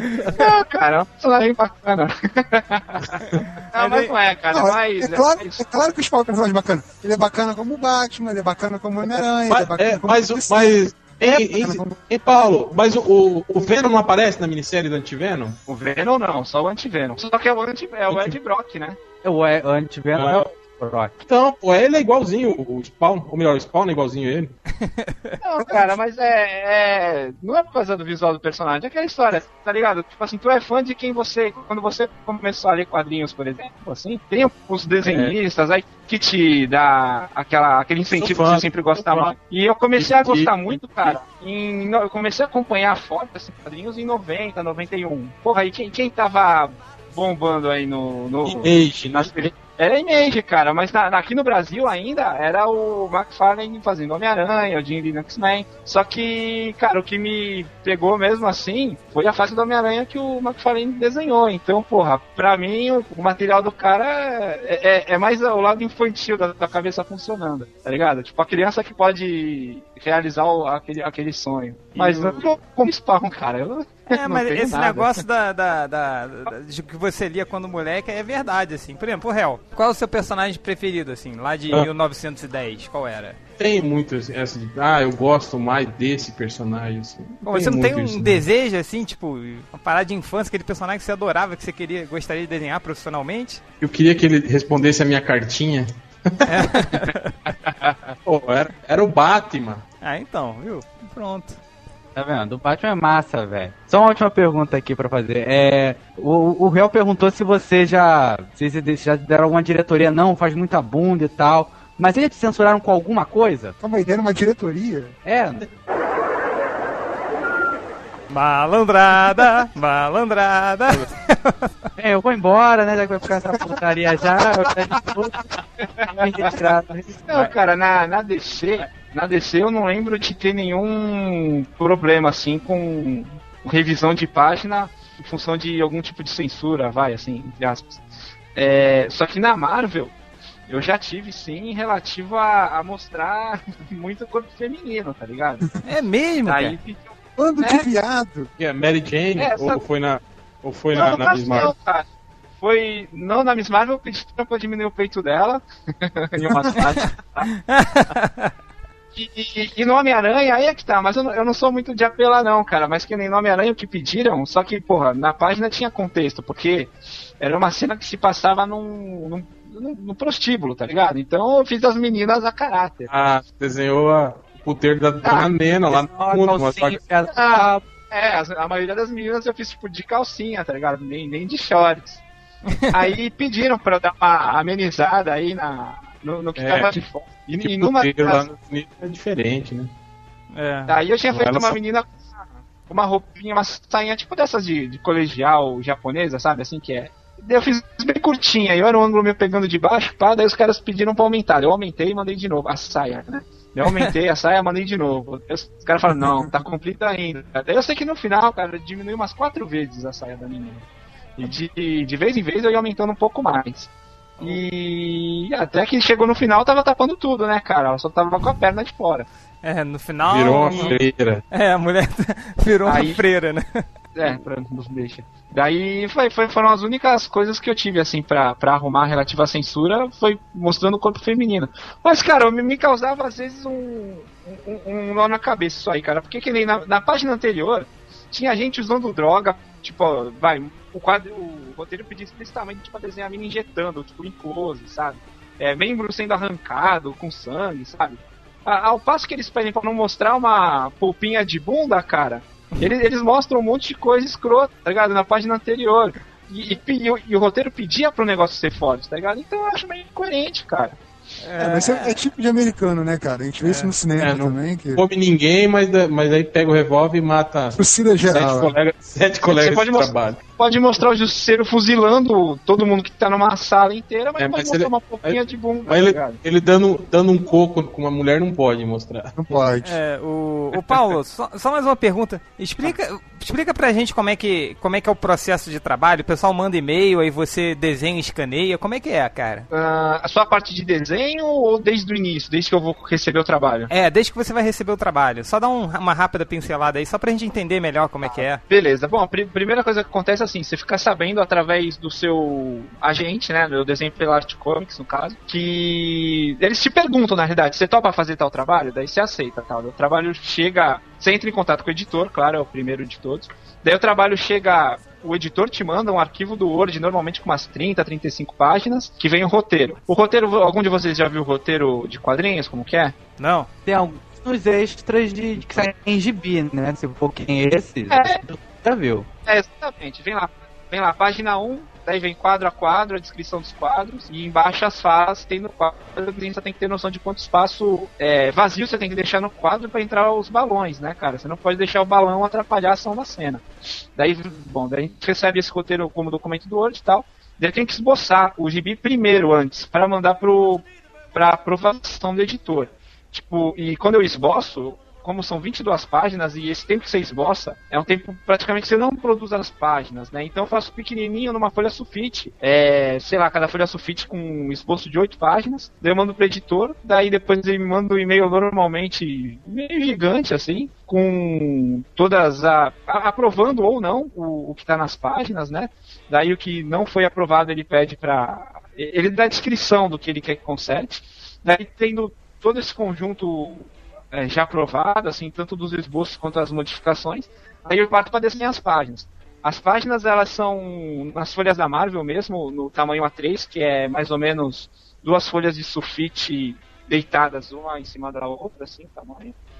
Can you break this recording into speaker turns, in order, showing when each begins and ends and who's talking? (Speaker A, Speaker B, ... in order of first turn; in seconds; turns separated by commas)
Speaker A: 0.3-5.6, Speaker B: 3.7-4.1, Speaker C: 4.5-12.0, Speaker D: 9.5-15.6, Speaker A: 15.7-19.0, Speaker E: 19.2-21.1, Speaker D: 20.1-20.6, Speaker D: 21.2-24.5, Speaker B: 24.8-25.3, Speaker A: 25.4-75.2, Speaker D: 35.0-35.3, Speaker D: 38.1-39.3, Speaker D: 40.0-41.1, Speaker D: 48.4-49.3, Speaker D: 71.9-72.5, Speaker B: 74.1-83.4, Speaker D: 83.6-88.4, Speaker B: 87.4-93.6, Speaker D: 93.8-96.5, Speaker B: 96.5-97.3, Speaker D: 98.2-99.8, Speaker B: 100.0-101.6, Speaker E: 102.1-113.7, Speaker C: 113.8-115.1, Speaker E: 115.2-115.6, Speaker B: 118.3-121.7, Speaker E: 122.0-125.4, Speaker E: 126.0-127.0, Speaker A: 127.3-138.0, Speaker A: 138.5-140.1, Speaker A: 140.7-145.6, Speaker B: 145.8-146.8, Speaker A: 146.4-147.9, Speaker C: 147.4-148.5, Speaker D: 148.6-151.7, Speaker A: 149.4-149.8, Speaker A: 150.9-152.1, Speaker A: 152.6-157.5, Speaker B: 157.7-158.5, Speaker A: 159.1-173.1, Speaker D: 173.1-177.0, Speaker E: 175.9-177.8, Speaker A: 177.3-182.2, Speaker A: 182.9-188.4, Speaker D: 186.6-187.0, Speaker D: 187.6-189.9, Speaker B: 190.5-191.0, Speaker A: 190.9-210.8, Speaker D: 191.3-191.8, Speaker A: 211.4-219.3, Speaker B: 219.6-220.9, Speaker D: 220.3-221.4, Speaker B: 221.5-223.8, Speaker A: 222.8-223.2, Speaker A: 224.1-261.0, Speaker B: 261.4-262.2, Speaker C: 261.6-265.0, Speaker B: 263.6-263.9, Speaker D: 264.2-270.4, Speaker C: 267.7-268.7, Speaker A: 269.4-276.4, Speaker D: 274.4-279.6, Speaker C: 279.4-279.9, Speaker B: 279.8-289.7, Speaker A: 289.7-293.9, Speaker B: 293.9-298.6, Speaker A: 298.2-323.1, Speaker B: 323.4-323.7, Speaker E: 323.8-329.3, Speaker A: 328.1-328.4, Speaker A: 329.4-343.6, Speaker A: 344.1-399.5